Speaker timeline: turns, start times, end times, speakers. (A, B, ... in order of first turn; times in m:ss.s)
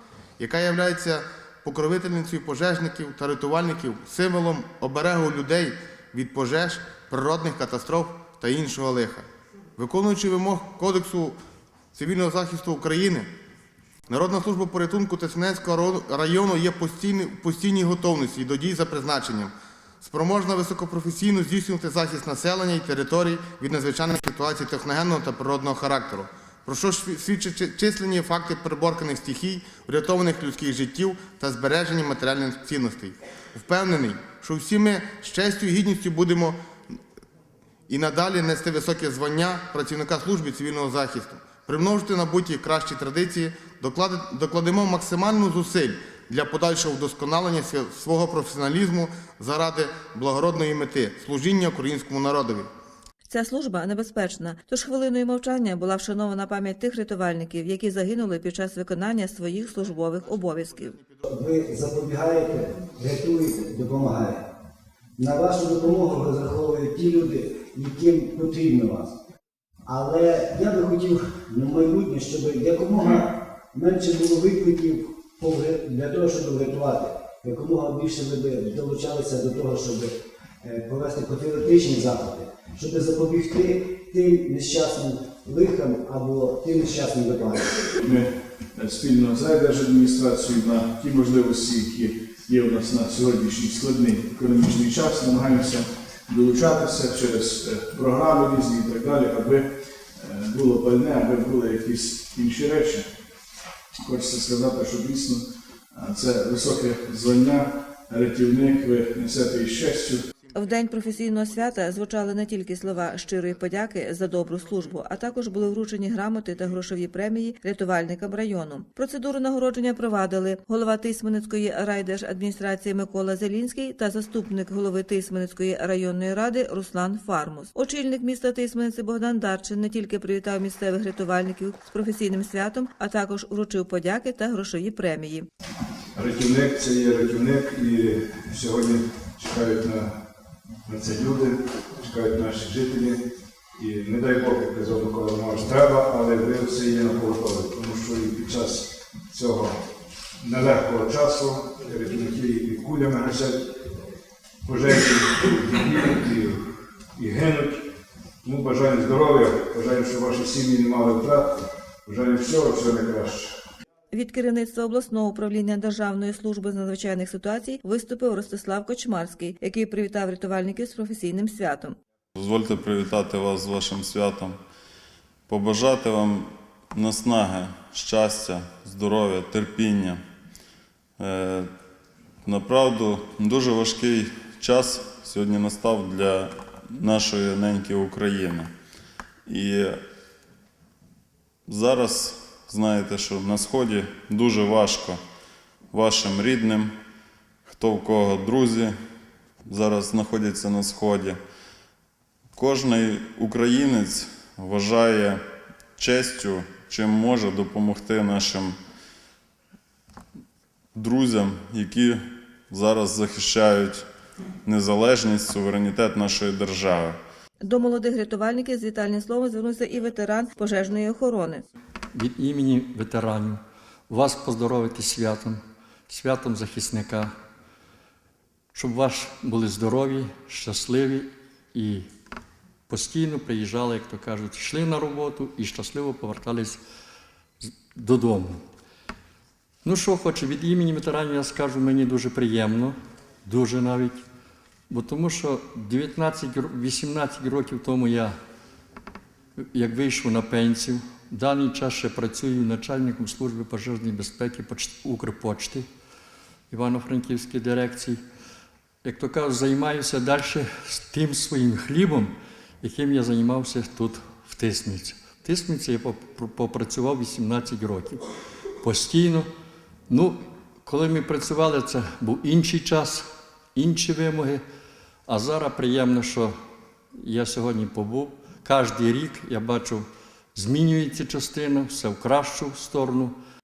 0:00.4-0:09.3 A
0:09.8-0:11.4 A
0:11.9-0:13.3 A
0:14.1-0:36.6 A
0:37.9-0:52.7 A
0:53.3-1:01.0 B
0:59.6-1:01.3 A
1:01.3-1:04.4 C
1:05.2-1:09.1 C
1:09.9-1:27.8 C
1:28.0-1:43.1 D
1:44.0-1:50.2 D
1:50.3-1:52.3 A
1:50.5-2:15.5 B
1:53.0-1:53.5 A
1:54.6-1:55.0 A
2:16.2-2:20.1 E
2:20.9-2:23.2 E
2:23.8-2:29.8 E
2:30.4-2:33.7 E
2:34.6-2:36.6 E
2:37.2-2:37.8 E
2:38.4-2:43.6 E
2:44.1-2:52.0 B
2:52.4-2:54.6 F
2:55.5-3:00.2 F
3:01.2-3:01.7 F
3:02.4-3:08.7 F
3:09.5-3:10.0 F
3:11.7-3:15.2 F
3:15.9-3:16.9 F
3:17.7-3:18.9 F
3:19.7-3:21.4 F
3:22.6-3:25.4 F
3:26.0-3:28.8 F
3:31.0-3:34.1 F
3:34.6-3:37.2 F
3:37.6-3:41.6 B
3:42.1-3:47.3 G
3:48.7-3:52.1 G
3:52.9-3:56.8 G
3:57.6-3:58.6 G
3:59.8-4:04.2 G
4:04.9-4:08.4 G
4:09.7-4:15.9 G
4:16.7-4:18.2 G
4:19.0-4:28.2 G
4:28.8-4:29.5 G
4:30.1-4:33.2 G
4:33.8-4:34.6 G
4:35.3-4:36.5 G
4:37.2-4:43.4 G